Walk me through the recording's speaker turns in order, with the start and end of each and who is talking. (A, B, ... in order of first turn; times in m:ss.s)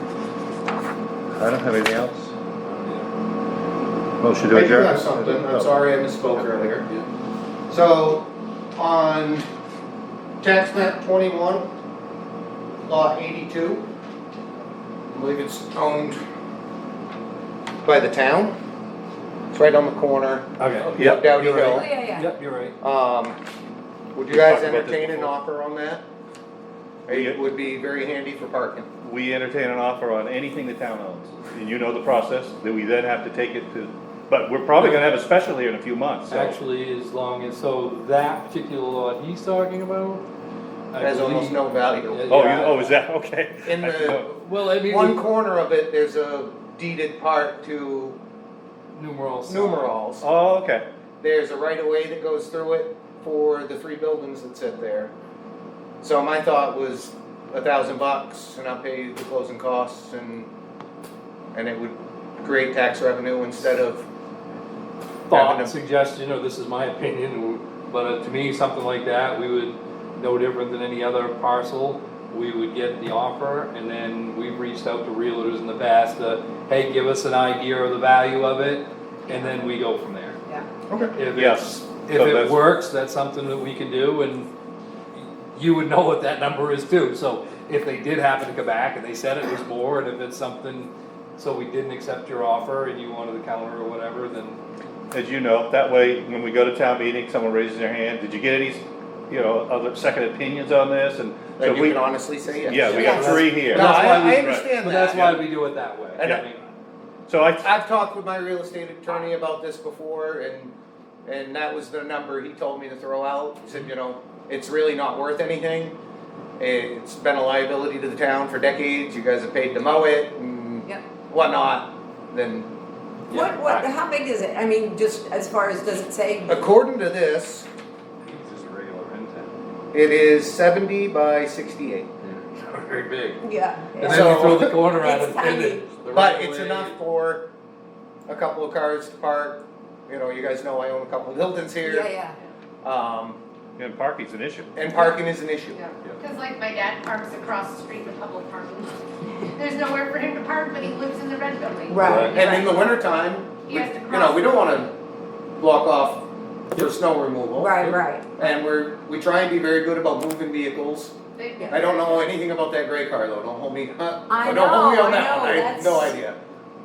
0:01.4-0:02.3 A
0:02.6-0:03.1 B
0:04.2-0:05.7 A
0:04.5-0:06.9 C
0:07.7-0:09.5 C
0:10.4-0:11.7 C
0:12.8-0:13.9 C
0:15.1-0:16.2 C
0:17.8-0:18.6 C
0:19.5-0:21.9 C
0:20.6-0:22.8 B
0:20.9-0:21.2 A
0:21.6-0:22.3 D
0:22.8-0:23.4 C
0:24.2-0:26.0 C
0:24.3-0:25.3 A
0:27.1-0:27.4 A
0:27.1-0:28.9 C
0:29.0-0:36.6 A
0:34.8-0:35.1 B
0:36.3-0:40.2 B
0:40.9-0:42.8 B
0:41.0-0:42.6 C
0:42.3-0:44.3 A
0:43.6-0:48.2 C
0:44.4-0:45.2 B
0:48.9-0:50.0 B
0:49.5-0:50.3 C
0:50.2-0:50.8 A
0:51.2-0:55.1 C
0:56.0-1:00.5 C
1:01.5-1:04.1 C
1:05.3-1:05.8 C
1:05.3-1:20.4 B
1:20.9-1:21.2 C
1:21.2-1:24.5 B
1:21.3-1:22.7 A
1:25.2-1:34.6 B
1:35.1-1:42.0 A
1:41.6-1:45.4 C
1:42.6-1:45.4 A
1:42.8-1:46.6 B
1:42.9-1:43.4 D
1:43.6-1:44.6 E
1:47.3-1:47.7 A
1:47.6-1:50.7 C
1:51.3-1:56.0 C
1:56.6-2:02.7 C
2:03.3-2:03.9 B
2:03.3-2:06.8 D
2:06.5-2:07.7 C
2:08.2-2:09.5 B
2:09.9-2:12.1 C
2:12.2-2:13.4 B
2:13.4-2:15.9 D
2:14.0-2:16.9 B
2:14.0-2:14.8 C
2:16.1-2:17.4 C
2:18.3-2:22.1 C
2:21.8-2:22.4 D
2:22.8-2:23.4 C
2:23.8-2:24.7 A
2:24.8-2:25.8 C
2:25.8-2:29.0 E
2:29.6-2:32.8 E
2:31.9-2:32.9 D
2:32.3-2:34.9 C
2:33.7-2:34.9 E
2:35.6-2:36.2 C
2:36.8-2:41.1 C
2:37.6-2:38.4 D
2:41.4-2:42.3 E
2:41.6-2:41.8 D
2:41.7-2:46.4 C
2:44.3-2:46.2 D